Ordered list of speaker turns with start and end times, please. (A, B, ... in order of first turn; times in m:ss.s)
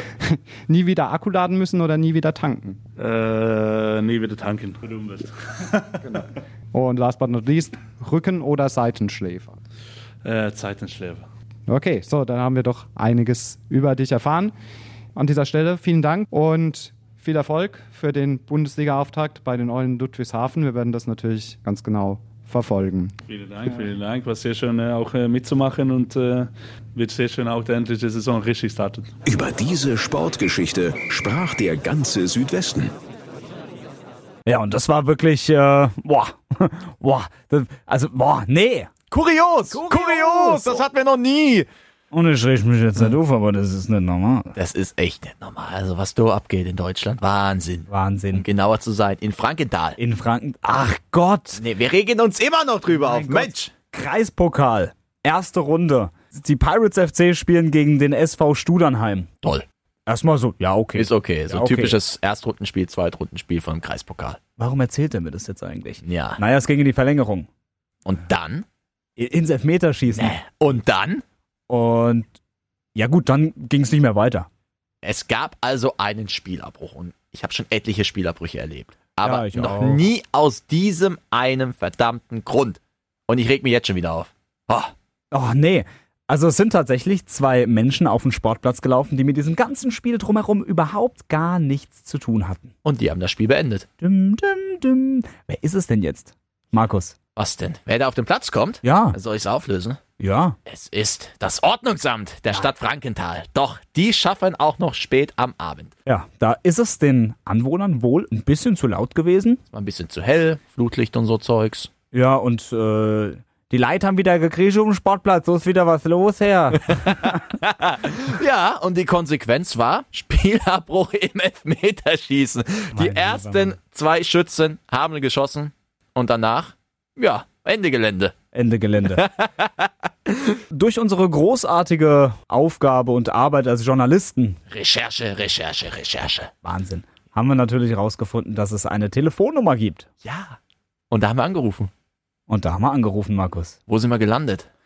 0:00.2-0:02.8 A
0:03.0-0:06.0 B
0:06.0-0:09.6 A
0:10.2-0:11.3 B
0:11.7-0:14.5 A
0:15.2-0:23.2 A
0:23.3-0:29.1 B
0:29.3-0:32.9 C
0:34.5-0:38.9 D
0:39.1-0:41.7 E
0:39.7-0:40.8 D
0:42.1-0:44.5 D
0:44.6-0:50.0 E
0:47.9-0:48.4 D
0:50.0-0:51.6 D
0:51.6-0:53.7 E
0:52.9-0:59.3 D
1:00.1-1:02.0 D
1:01.0-1:04.4 E
1:04.6-1:07.5 D
1:06.0-1:06.4 E
1:08.0-1:08.7 E
1:09.2-1:10.4 D
1:10.1-1:11.2 E
1:11.7-1:12.3 D
1:13.0-1:14.5 D
1:15.0-1:24.9 E
1:19.2-1:20.0 D
1:25.3-1:32.7 D
1:32.8-1:33.9 E
1:34.0-1:37.1 D
1:37.4-1:40.0 E
1:38.8-1:39.2 D
1:40.2-1:40.6 D
1:40.7-1:45.9 E
1:46.1-1:49.6 D
1:49.7-1:51.9 E
1:52.1-1:57.3 D
1:57.6-2:08.4 E
2:03.0-2:03.7 D
2:08.5-2:09.2 D
2:09.1-2:10.6 E
2:10.7-2:14.6 D
2:14.7-2:16.5 E
2:16.6-2:20.1 D
2:20.2-2:20.6 E
2:21.1-2:21.9 E
2:22.5-2:23.8 D
2:23.9-2:24.7 E